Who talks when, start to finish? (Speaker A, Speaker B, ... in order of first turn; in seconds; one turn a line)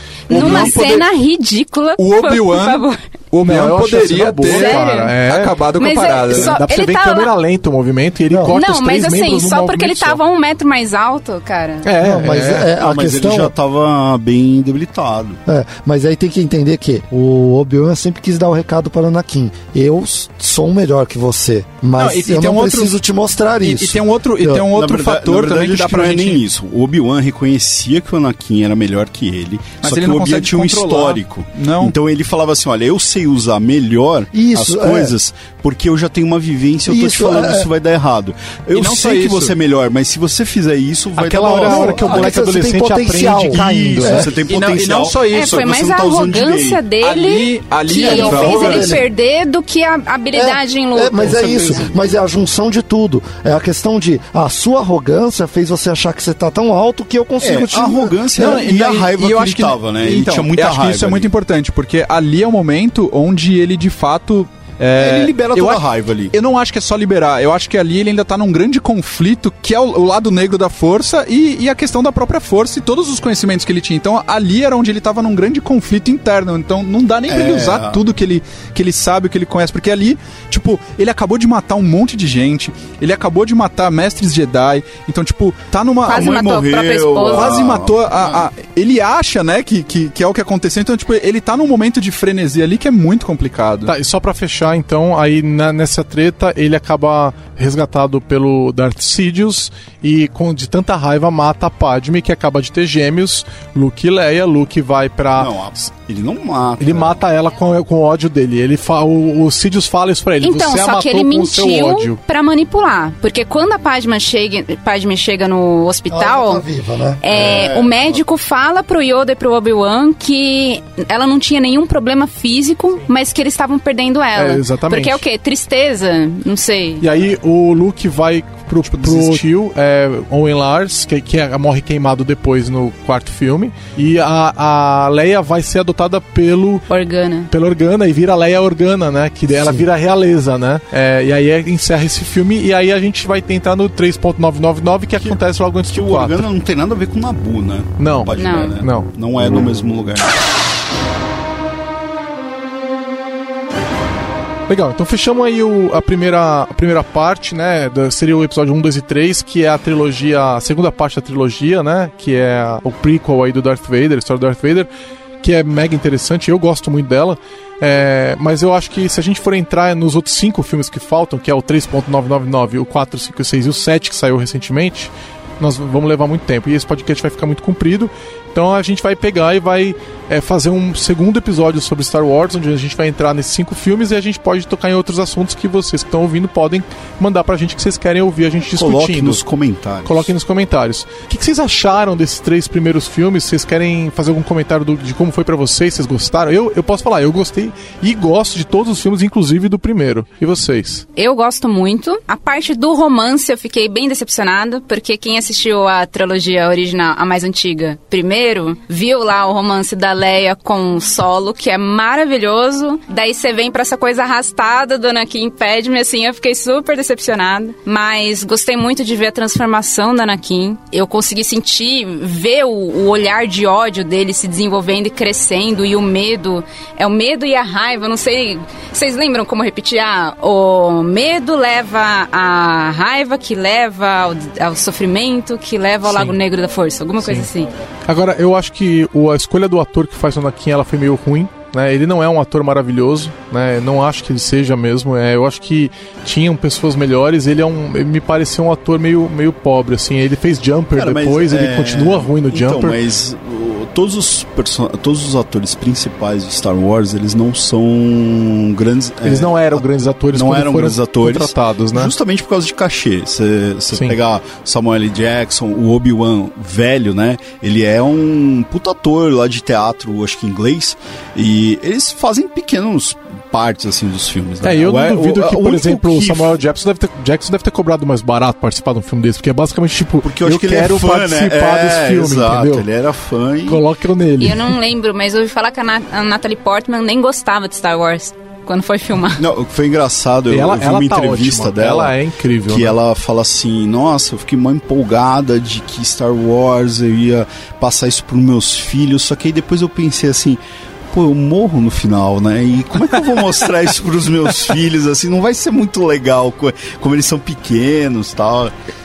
Speaker A: 0.3-3.0
Speaker B: 0.3-1.1
Speaker C: 0.3-0.8
Speaker B: 2.0-6.6
Speaker C: 3.4-5.6
Speaker A: 4.4-5.2
Speaker A: 5.8-7.3
Speaker C: 6.3-10.2
Speaker D: 8.3-8.6
Speaker A: 8.5-11.9
Speaker C: 11.8-12.7
Speaker D: 12.0-13.5
Speaker E: 12.7-15.4
Speaker D: 15.5-24.6
Speaker B: 22.0-22.9
Speaker B: 23.6-26.4
Speaker E: 24.7-42.4
Speaker B: 29.8-31.9
Speaker D: 34.3-35.1
Speaker D: 36.9-37.7
Speaker B: 38.7-39.5
Speaker C: 41.2-44.3
Speaker D: 41.6-44.4
Speaker E: 43.5-46.8
Speaker B: 44.5-45.7
Speaker A: 45.3-51.9
Speaker B: 47.0-49.0
Speaker D: 48.0-49.0
Speaker E: 48.0-48.9
Speaker D: 50.3-58.6
Speaker E: 57.4-61.3
Speaker B: 58.4-86.3
Speaker E: 65.0-66.3
Speaker E: 77.3-78.0
Speaker A: 86.1-87.6
Speaker E: 86.1-88.5
Speaker B: 87.2-93.9
Speaker C: 93.9-105.9
Speaker E: 105.4-107.2
Speaker C: 106.8-112.2
Speaker A: 110.4-116.7
Speaker D: 116.1-117.2
Speaker A: 117.2-127.0
Speaker E: 117.3-118.2
Speaker C: 124.4-125.2
Speaker C: 127.0-136.9
Speaker B: 128.8-129.4
Speaker A: 136.9-137.5
Speaker C: 137.5-146.5
Speaker E: 145.9-150.3
Speaker C: 148.0-149.1
Speaker A: 148.3-148.8
Speaker C: 154.7-164.9
Speaker C: 165.4-189.4
Speaker E: 188.7-190.3
Speaker C: 190.1-201.1
Speaker A: 201.2-237.7
Speaker C: 236.1-236.4
Speaker C: 237.2-237.5
Speaker C: 238.1-253.0
Speaker E: 250.9-276.6
Speaker C: 259.2-262.1
Speaker C: 263.9-264.2
Speaker C: 274.6-282.9
Speaker E: 280.2-283.8
Speaker C: 283.7-284.8
Speaker A: 284.4-289.4
Speaker E: 289.4-292.1
Speaker C: 290.5-293.0
Speaker E: 292.7-300.6
Speaker E: 301.1-308.7